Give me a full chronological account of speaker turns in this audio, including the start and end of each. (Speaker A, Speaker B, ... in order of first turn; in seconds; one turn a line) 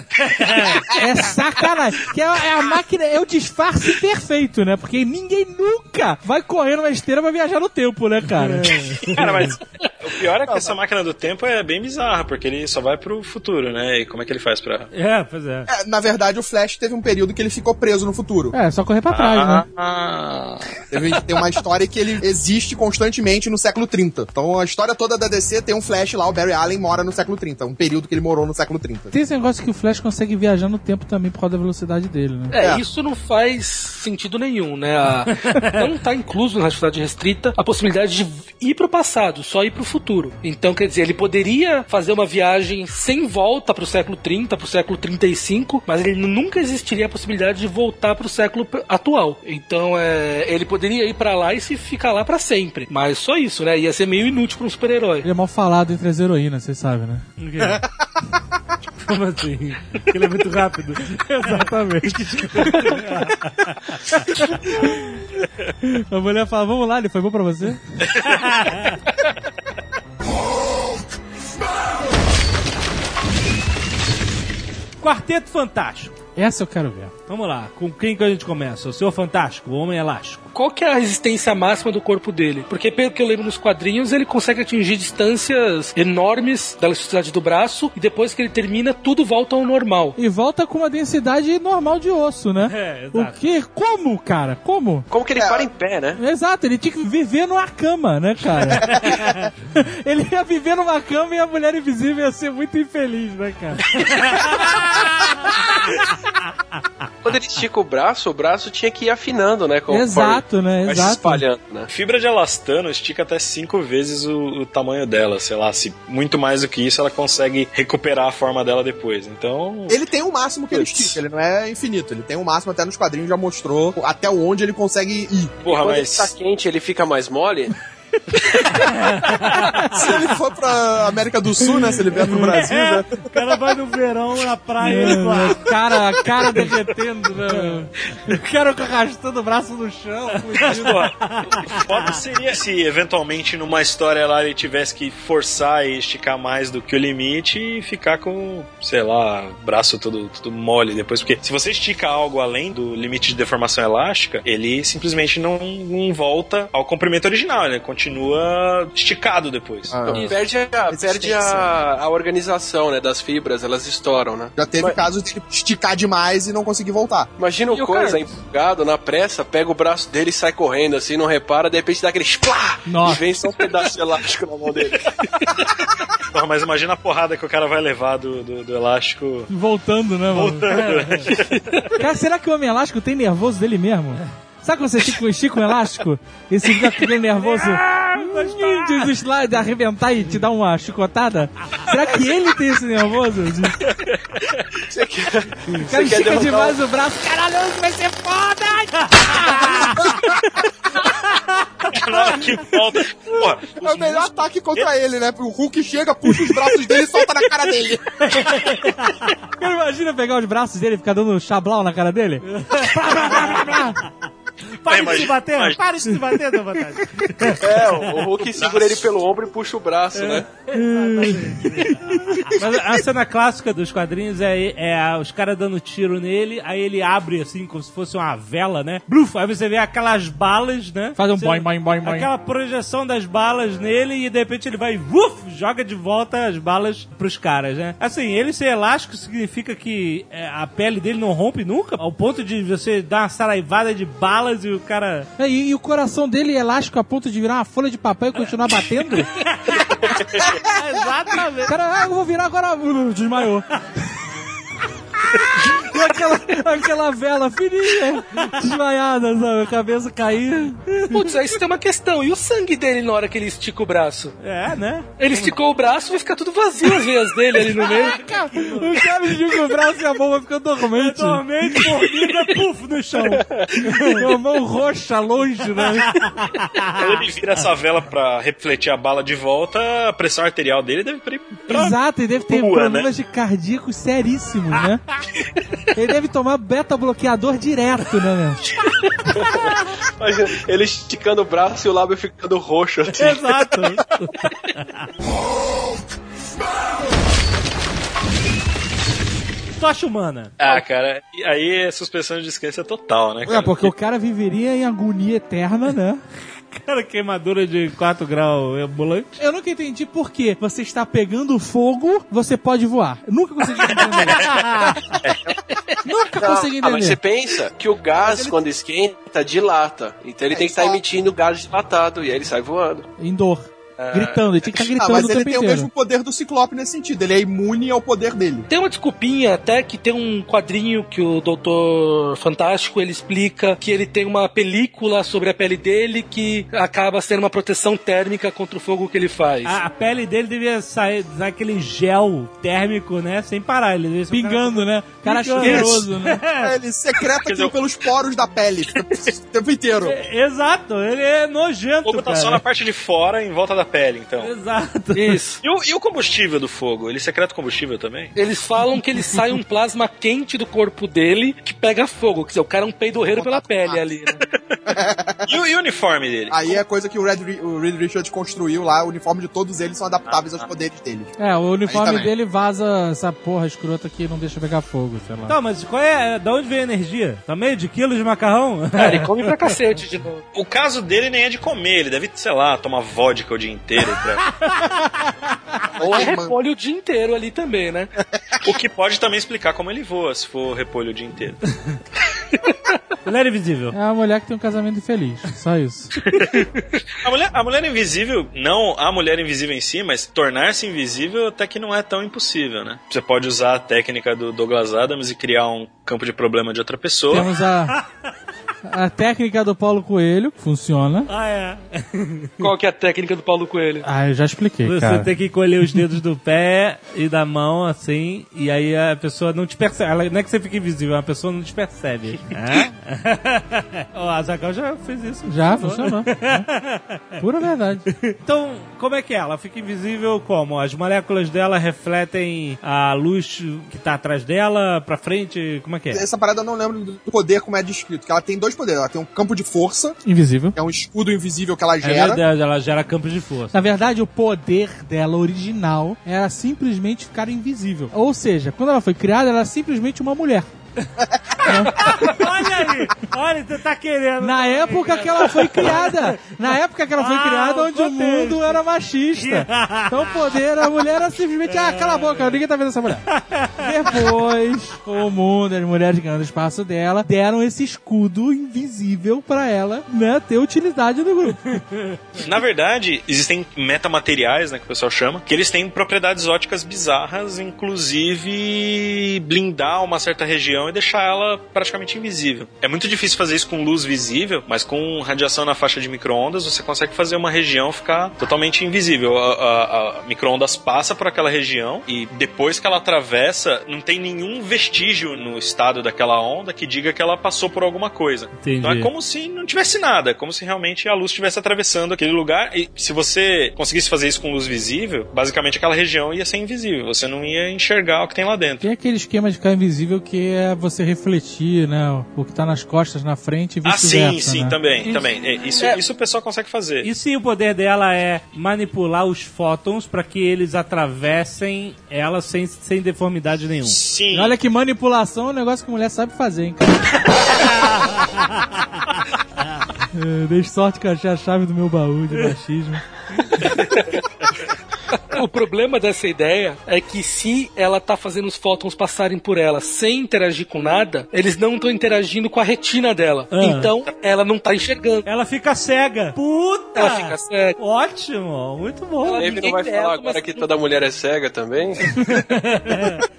Speaker A: 0.2-0.8
Speaker B: 0.6-8.9
Speaker A: 8.4-9.5
Speaker C: 9.0-14.9
Speaker A: 14.9-15.7
Speaker D: 15.7-18.5
Speaker B: 18.5-19.6
Speaker C: 19.1-21.1
Speaker D: 20.9-29.1
Speaker B: 29.1-32.5
Speaker E: 32.5-55.3
Speaker D: 32.6-32.8
Speaker B: 55.2-57.2
Speaker A: 57.4-57.8
Speaker A: 59.0-64.3
Speaker B: 61.1-63.0
Speaker B: 64.7-65.0
Speaker B: 65.8-67.8
Speaker A: 68.1-69.0
Speaker A: 75.0-76.1
Speaker B: 76.3-77.1
Speaker A: 77.3-80.4
Speaker E: 80.5-90.2
Speaker B: 90.2-95.1
Speaker A: 92.7-93.4
Speaker F: 95.1-96.2
Speaker D: 95.3-95.7
Speaker B: 96.2-103.9
Speaker A: 98.8-99.4
Speaker A: 104.1-106.1
Speaker F: 107.2-111.9
Speaker B: 109.9-111.4
Speaker C: 111.9-120.0
Speaker D: 119.9-125.6
Speaker F: 120.8-121.0
Speaker C: 125.6-126.3
Speaker F: 125.6-127.7
Speaker A: 128.7-129.8
Speaker D: 129.9-133.3
Speaker A: 132.3-135.7
Speaker B: 134.8-141.1
Speaker F: 140.7-141.1
Speaker A: 141.2-142.0
Speaker C: 141.5-160.0
Speaker D: 159.9-161.7
Speaker F: 160.1-165.1
Speaker D: 164.6-167.3
Speaker F: 167.4-175.7
Speaker E: 167.7-168.2
Speaker B: 172.8-173.2
Speaker C: 176.3-179.5
Speaker B: 179.5-180.9
Speaker C: 180.3-181.9
Speaker A: 180.7-181.3
Speaker B: 182.0-193.9
Speaker A: 187.3-189.1
Speaker F: 194.9-196.8
Speaker B: 195.8-200.1
Speaker A: 199.2-199.9
Speaker C: 201.9-204.9
Speaker D: 203.8-208.5
Speaker B: 206.3-206.7
Speaker A: 208.3-209.3
Speaker B: 209.6-214.0
Speaker A: 212.4-213.9
Speaker A: 214.7-217.6
Speaker C: 214.9-215.8
Speaker F: 217.6-220.5
Speaker C: 218.5-219.1
Speaker A: 220.2-245.3
Speaker B: 220.7-222.2
Speaker B: 231.2-232.3
Speaker B: 245.4-249.3
Speaker A: 249.3-251.7
Speaker B: 251.7-253.7
Speaker B: 255.3-261.0
Speaker E: 261.1-264.4
Speaker A: 264.4-265.5
Speaker E: 265.2-268.2
Speaker A: 267.6-269.0
Speaker B: 267.6-271.8
Speaker A: 270.9-274.2
Speaker F: 273.4-273.7
Speaker B: 273.9-276.2
Speaker A: 276.0-277.1
Speaker C: 276.9-281.9
Speaker B: 281.7-285.0
Speaker C: 282.5-283.1
Speaker B: 285.9-288.7
Speaker F: 289.2-293.7
Speaker A: 293.1-295.1
Speaker A: 299.8-300.8
Speaker C: 300.6-303.9
Speaker B: 303.4-306.2
Speaker A: 306.7-309.4
Speaker B: 309.4-315.0
Speaker A: 314.5-314.9
Speaker B: 316.0-317.2
Speaker F: 316.4-323.1
Speaker B: 318.2-318.6
Speaker D: 320.5-321.0
Speaker B: 323.2-325.9
Speaker C: 324.0-324.5
Speaker D: 324.8-328.7
Speaker E: 328.7-339.8
Speaker A: 339.6-346.7
Speaker B: 344.3-346.4
Speaker D: 346.5-350.2
Speaker C: 347.4-347.8
Speaker A: 350.0-352.6
Speaker C: 352.0-354.5
Speaker A: 354.4-355.4
Speaker E: 355.1-355.6
Speaker C: 355.6-358.3
Speaker E: 358.3-364.4
Speaker D: 363.3-364.0
Speaker D: 364.9-365.5
Speaker C: 365.5-366.8
Speaker D: 366.5-371.3
Speaker C: 370.3-370.6
Speaker B: 371.4-375.5
Speaker D: 371.9-372.3
Speaker A: 375.5-379.3
Speaker E: 379.0-380.4
Speaker C: 380.5-384.6
Speaker E: 386.0-388.1
Speaker D: 386.0-386.6
Speaker C: 388.6-391.6
Speaker A: 393.2-393.9
Speaker B: 393.9-396.1
Speaker E: 396.5-396.8
Speaker C: 397.1-407.5
Speaker B: 407.3-407.9
Speaker B: 408.8-411.3
Speaker A: 411.3-412.6
Speaker E: 412.6-414.1
Speaker B: 414.0-415.3
Speaker A: 414.8-427.2
Speaker B: 425.5-426.6
Speaker B: 427.4-428.1
Speaker A: 428.2-436.2
Speaker D: 436.1-440.1
Speaker B: 440.2-440.8
Speaker D: 440.7-442.4
Speaker A: 442.0-443.8
Speaker B: 443.7-450.7
Speaker D: 451.3-451.7
Speaker A: 451.6-456.5
Speaker B: 451.6-452.4
Speaker B: 454.4-471.8
Speaker A: 457.2-458.8
Speaker A: 459.4-460.4
Speaker A: 461.8-462.5
Speaker A: 463.4-463.9
Speaker A: 471.7-472.2
Speaker C: 472.4-508.9
Speaker A: 498.6-499.1
Speaker B: 508.8-514.8
Speaker C: 513.8-517.1
Speaker E: 515.0-516.0
Speaker A: 517.0-524.0
Speaker C: 523.9-524.5
Speaker B: 524.3-527.3
Speaker A: 528.1-528.4
Speaker B: 530.1-533.0
Speaker E: 533.6-534.0
Speaker E: 535.3-545.3
Speaker A: 543.5-543.9
Speaker A: 545.2-549.6
Speaker E: 546.9-547.8
Speaker F: 549.3-552.3
Speaker E: 549.4-550.6
Speaker A: 552.2-553.2